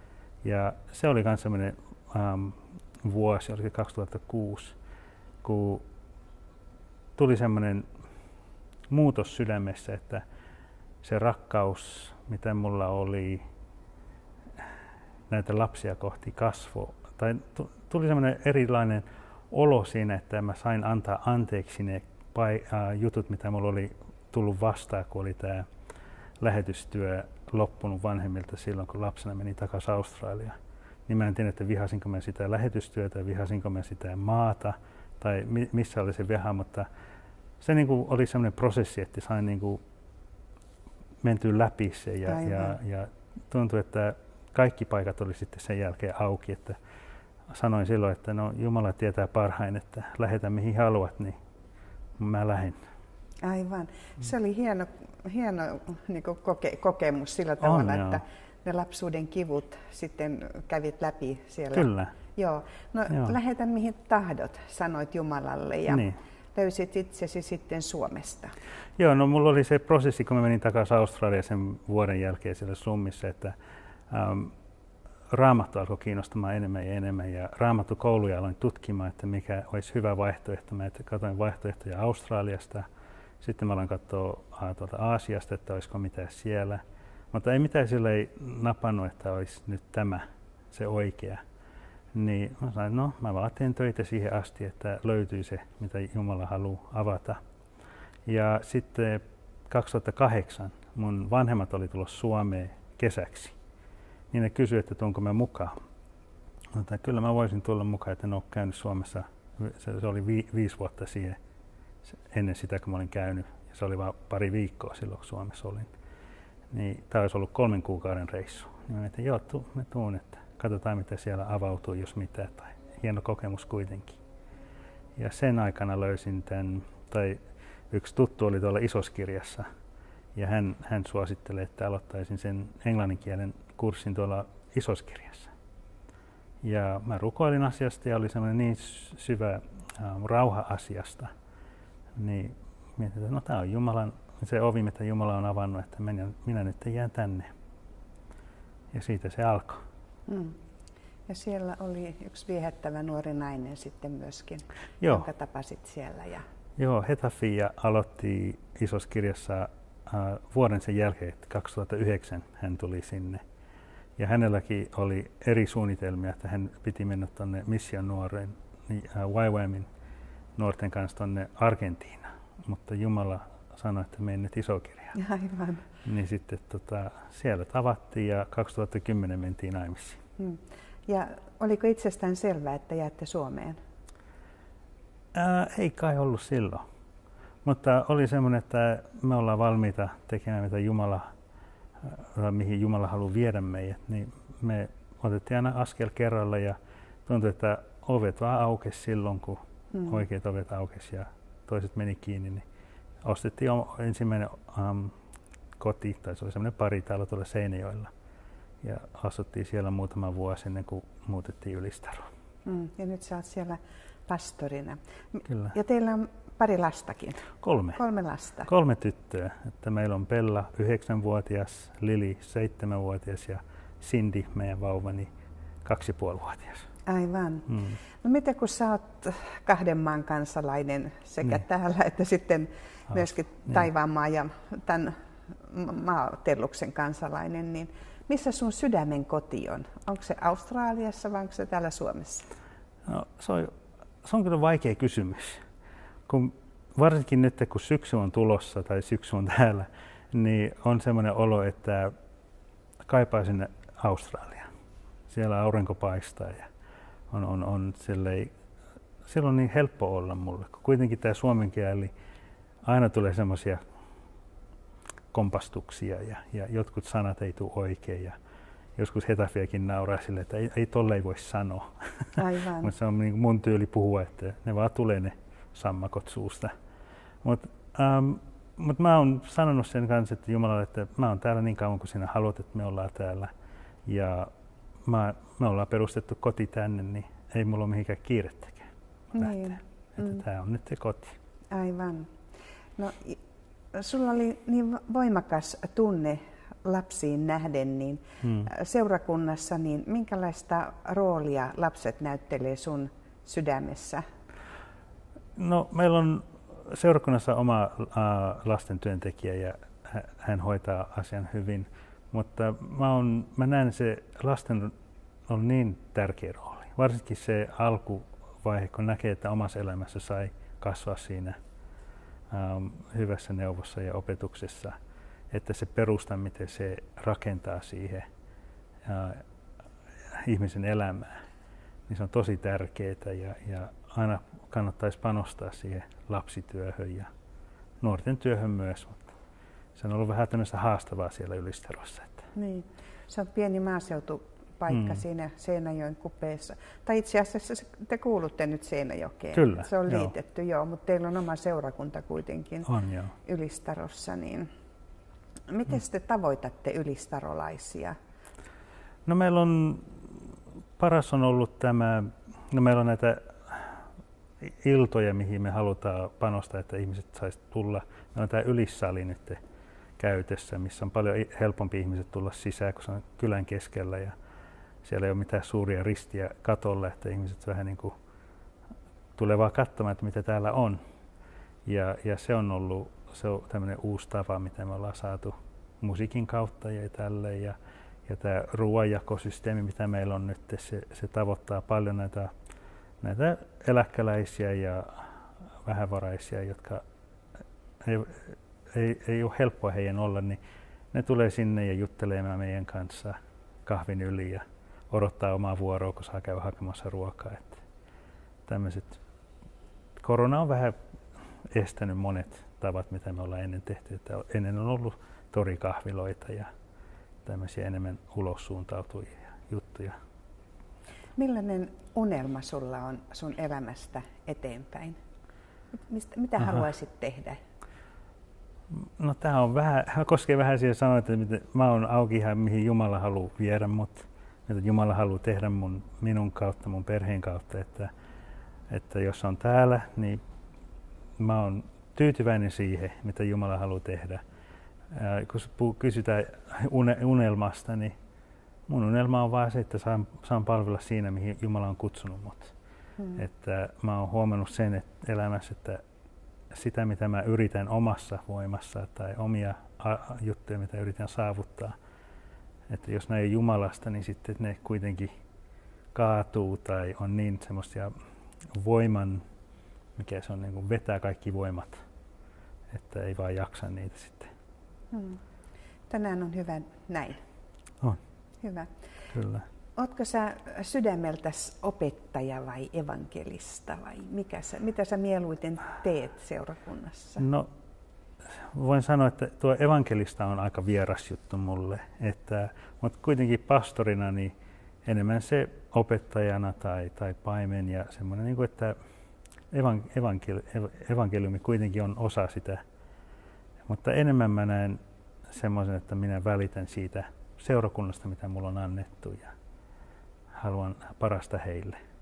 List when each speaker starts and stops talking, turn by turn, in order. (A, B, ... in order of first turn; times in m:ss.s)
0:00.4-0:04.8 A
0:05.4-0:05.8 A
0:07.2-0:07.9 A
0:08.9-0:10.2 A
0:11.0-0:13.4 A
0:15.3-0:25.7 A
0:26.4-0:30.6 A
0:31.1-0:36.9 A
0:37.6-0:39.8 A
0:41.2-0:46.8 A
0:42.3-0:42.7 B
0:47.5-0:51.4 A
0:52.2-0:52.8 A
0:53.4-1:08.5 B
0:57.6-0:58.2 A
1:01.7-1:02.1 A
1:05.9-1:06.2 A
1:09.0-1:13.5 A
1:14.1-1:14.5 A
1:15.3-1:22.8 A
1:23.4-1:26.8 A
1:27.3-1:31.4 A
1:32.1-1:37.4 A
1:38.2-1:43.6 A
1:44.3-1:45.8 A
1:46.7-1:51.4 A
1:52.3-1:55.9 A
1:56.7-2:04.2 A
2:05.2-2:09.7 A
2:10.3-2:15.5 A
2:16.6-2:21.3 A
2:22.2-2:27.5 A
2:28.9-2:29.8 A
2:30.3-2:30.6 B
2:31.3-2:36.4 B
2:36.8-2:43.4 A
2:44.2-2:49.9 A
2:50.6-2:55.1 A
2:55.1-2:55.8 B
2:56.0-3:00.2 A
3:00.4-3:03.8 B
3:05.3-3:06.8 A
3:07.6-3:11.3 A
3:12.0-3:22.6 A
3:23.2-3:25.2 A
3:25.8-3:28.1 A
3:28.8-3:32.3 A
3:32.6-3:38.7 B
3:35.5-3:35.7 A
3:37.6-3:38.0 A
3:38.6-3:45.3 A
3:45.8-3:46.9 A
3:47.0-4:02.5 B
4:03.0-4:05.6 A
4:06.3-4:12.1 A
4:13.0-4:14.7 A
4:15.3-4:16.7 A
4:17.3-4:18.5 A
4:19.2-4:22.1 A
4:22.8-4:23.8 A
4:25.3-4:28.4 A
4:29.0-4:36.7 A
4:32.4-4:32.9 B
4:37.4-4:43.5 A
4:44.0-4:44.5 A
4:45.0-4:51.4 A
4:49.3-4:50.4 B
4:51.7-4:52.3 B
4:53.0-4:53.4 B
4:53.9-5:04.2 B
4:58.4-4:58.7 A
5:05.6-5:14.9 A
5:15.5-5:21.6 A
5:22.5-5:25.0 A
5:25.5-5:28.3 A
5:29.0-5:29.4 A
5:30.3-5:31.4 A
5:32.1-5:37.3 A
5:38.0-5:39.3 A
5:39.9-5:42.5 A
5:42.5-5:52.9 B
5:49.5-5:50.3 A
5:52.8-5:53.3 A
5:53.4-5:54.7 B
5:55.7-5:58.2 B
5:59.2-6:04.0 A
6:04.6-6:09.6 A
6:10.2-6:14.3 A
6:15.0-6:18.1 A
6:19.4-6:21.0 A
6:21.8-6:32.5 A
6:33.2-6:37.0 A
6:38.0-6:40.6 A
6:41.1-6:47.8 A
6:48.6-6:49.2 A
6:50.2-6:51.0 A
6:51.7-6:56.7 A
6:57.4-7:00.2 A
7:01.4-7:05.2 B
7:06.1-7:07.6 B
7:08.9-7:18.1 A
7:18.9-7:20.4 A
7:21.4-7:24.4 A
7:25.1-7:28.1 A
7:28.9-7:32.7 A
7:33.3-7:36.0 A
7:36.7-7:42.0 A
7:42.9-7:45.3 A
7:46.1-7:48.1 A
7:48.7-7:49.4 A
7:50.2-7:52.0 A
7:52.9-7:54.5 A
7:55.1-7:55.4 B
7:56.1-7:57.4 B
7:58.6-7:58.9 B
7:59.3-7:59.6 A
8:00.0-8:07.4 B
8:07.4-8:07.7 A
8:08.5-8:14.5 A
8:15.0-8:19.0 A
8:19.7-8:22.8 A
8:23.8-8:29.5 A
8:30.5-8:32.0 A